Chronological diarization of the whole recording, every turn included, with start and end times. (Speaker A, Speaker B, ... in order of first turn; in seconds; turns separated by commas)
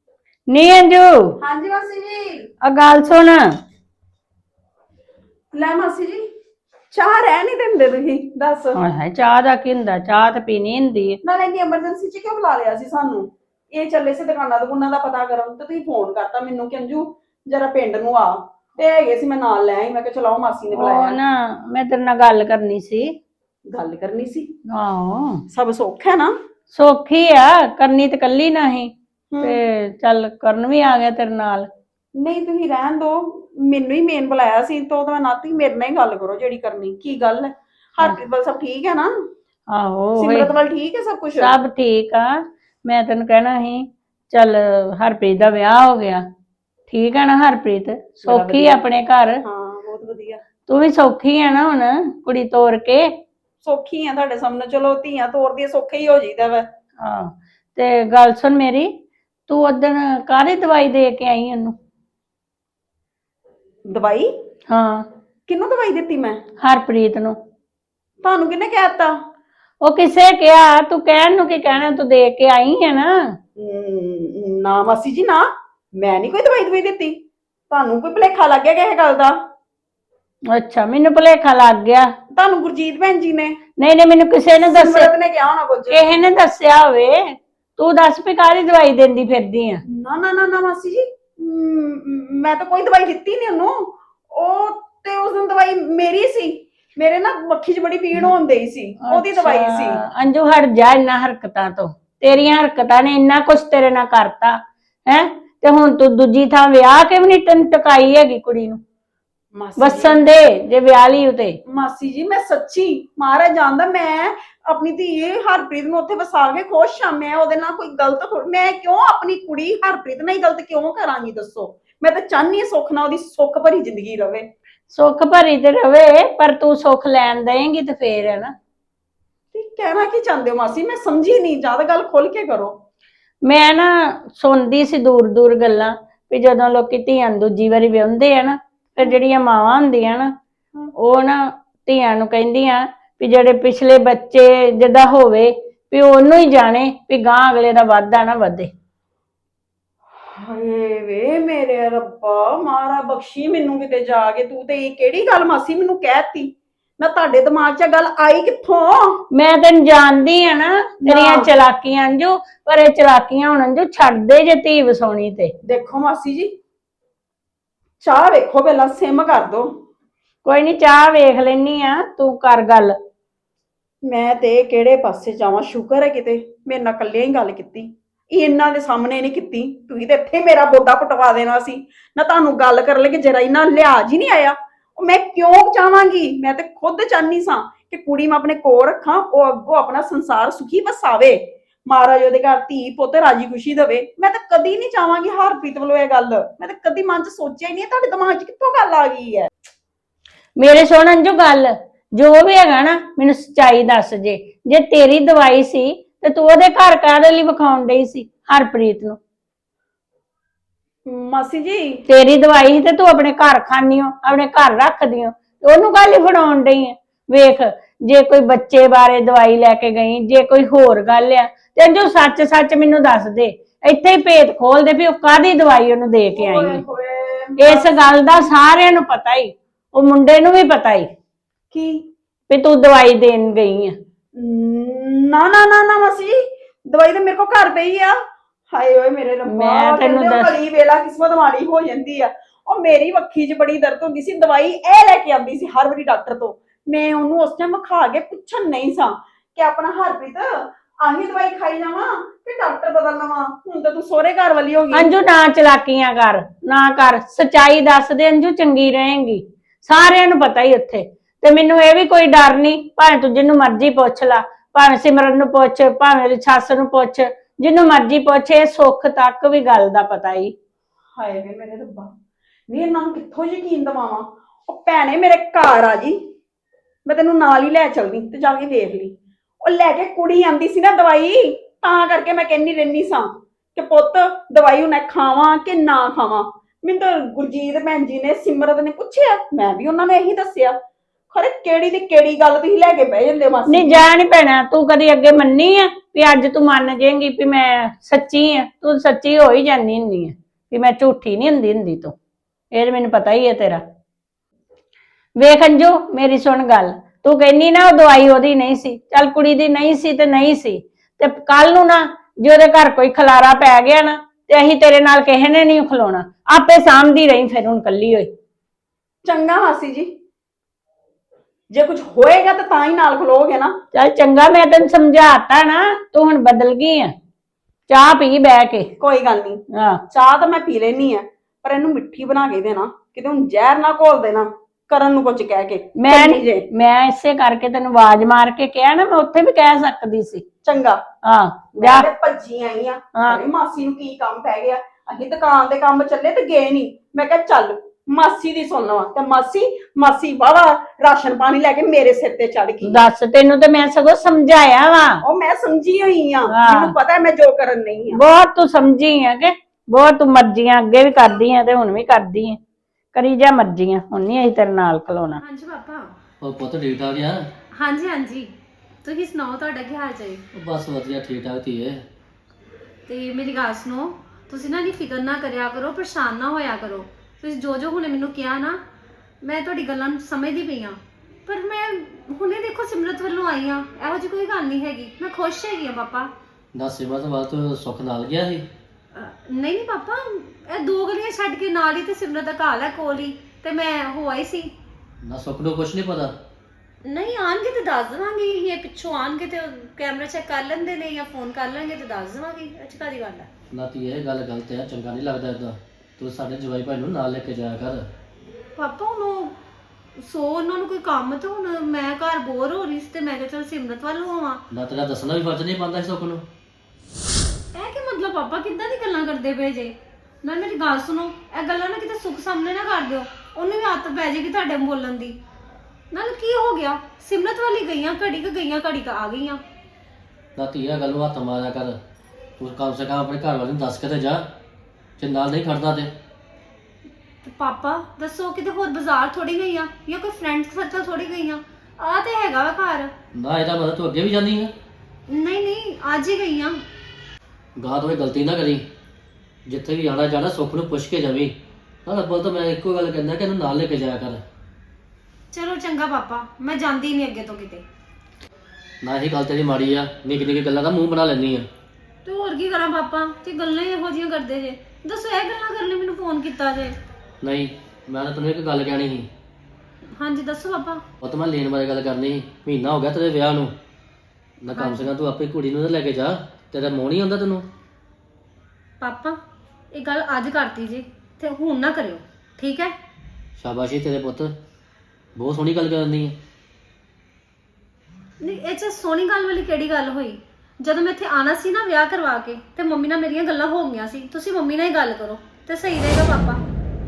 Speaker A: 0.5-1.3, Speaker B: 1.4-2.5, Speaker A: 2.6-3.5, Speaker B: 5.5-6.2, Speaker B: 6.9-8.8, Speaker A: 8.7-11.2, Speaker B: 11.2-21.2, Speaker A: 20.7-23.2, Speaker B: 23.7-24.5, Speaker A: 24.7-25.4, Speaker B: 25.5-26.4, Speaker A: 26.7-31.7, Speaker B: 29.3-29.6, Speaker B: 32.1-39.1, Speaker A: 39.7-40.5, Speaker B: 40.2-41.5, Speaker A: 41.3-46.2, Speaker A: 46.9-49.4, Speaker B: 48.2-48.8, Speaker B: 49.4-50.4, Speaker A: 50.7-53.2, Speaker B: 53.6-56.7, Speaker A: 57.0-61.8, Speaker B: 63.8-64.3, Speaker A: 64.7-65.1, Speaker B: 65.5-66.4, Speaker A: 66.6-67.4, Speaker B: 68.2-69.2, Speaker A: 69.8-73.4, Speaker B: 73.6-79.4, Speaker A: 80.5-82.1, Speaker B: 82.3-83.6, Speaker A: 83.8-85.1, Speaker B: 84.6-86.0, Speaker A: 85.9-89.8, Speaker B: 89.9-100.0, Speaker A: 99.0-108.8, Speaker B: 109.5-110.2, Speaker A: 109.8-111.6, Speaker B: 111.7-124.5, Speaker A: 124.9-128.5, Speaker B: 129.5-132.8, Speaker A: 133.4-140.3, Speaker A: 140.9-148.7, Speaker B: 150.3-159.2, Speaker A: 159.3-165.5, Speaker B: 161.0-161.5, Speaker B: 165.6-166.6, Speaker B: 168.0-169.7, Speaker A: 170.4-173.0, Speaker B: 174.0-199.5, Speaker A: 200.6-209.2, Speaker B: 211.1-212.0, Speaker A: 212.1-226.8, Speaker B: 226.3-228.2, Speaker A: 227.6-231.1, Speaker B: 231.7-232.1, Speaker A: 232.5-233.9, Speaker B: 234.4-238.2, Speaker B: 238.7-255.1, Speaker A: 239.5-240.5, Speaker A: 254.9-270.6, Speaker B: 271.1-272.1, Speaker B: 272.7-276.3, Speaker B: 277.1-290.8, Speaker B: 291.3-294.1, Speaker A: 293.6-302.1, Speaker A: 302.7-303.8, Speaker A: 305.4-318.3, Speaker B: 319.2-320.1, Speaker B: 321.7-323.8, Speaker A: 323.9-327.1, Speaker A: 327.9-328.9, Speaker B: 329.0-336.6, Speaker A: 329.8-330.0, Speaker A: 336.0-340.4, Speaker B: 340.6-341.0, Speaker A: 341.2-342.1, Speaker B: 341.8-353.0, Speaker A: 352.8-355.2, Speaker B: 355.2-358.2, Speaker A: 356.5-356.9, Speaker A: 358.1-362.6, Speaker A: 363.1-365.4, Speaker C: 365.4-366.1, Speaker D: 366.4-367.5, Speaker C: 367.7-370.4, Speaker D: 370.6-372.0, Speaker C: 373.1-378.8, Speaker C: 379.4-386.3, Speaker D: 386.7-388.7, Speaker C: 389.1-394.7, Speaker D: 395.2-396.4, Speaker C: 397.0-403.5, Speaker D: 403.7-408.1, Speaker C: 408.8-409.6, Speaker C: 410.2-414.6, Speaker D: 414.7-416.4, Speaker C: 417.7-425.4, Speaker C: 426.1-429.6, Speaker D: 430.6-432.0, Speaker D: 432.6-434.5, Speaker D: 435.2-436.1, Speaker C: 437.4-443.1, Speaker D: 443.3-444.7, Speaker C: 445.3-446.8, Speaker D: 447.8-448.8, Speaker D: 449.6-454.4, Speaker C: 455.5-457.8, Speaker D: 459.0-461.7, Speaker C: 462.2-467.0, Speaker D: 467.4-469.3, Speaker C: 470.1-471.0, Speaker D: 471.2-473.7, Speaker D: 474.6-477.7, Speaker C: 474.7-475.1, Speaker C: 479.0-479.4, Speaker C: 479.9-482.9, Speaker D: 483.6-484.6, Speaker D: 485.4-486.4, Speaker C: 488.4-496.6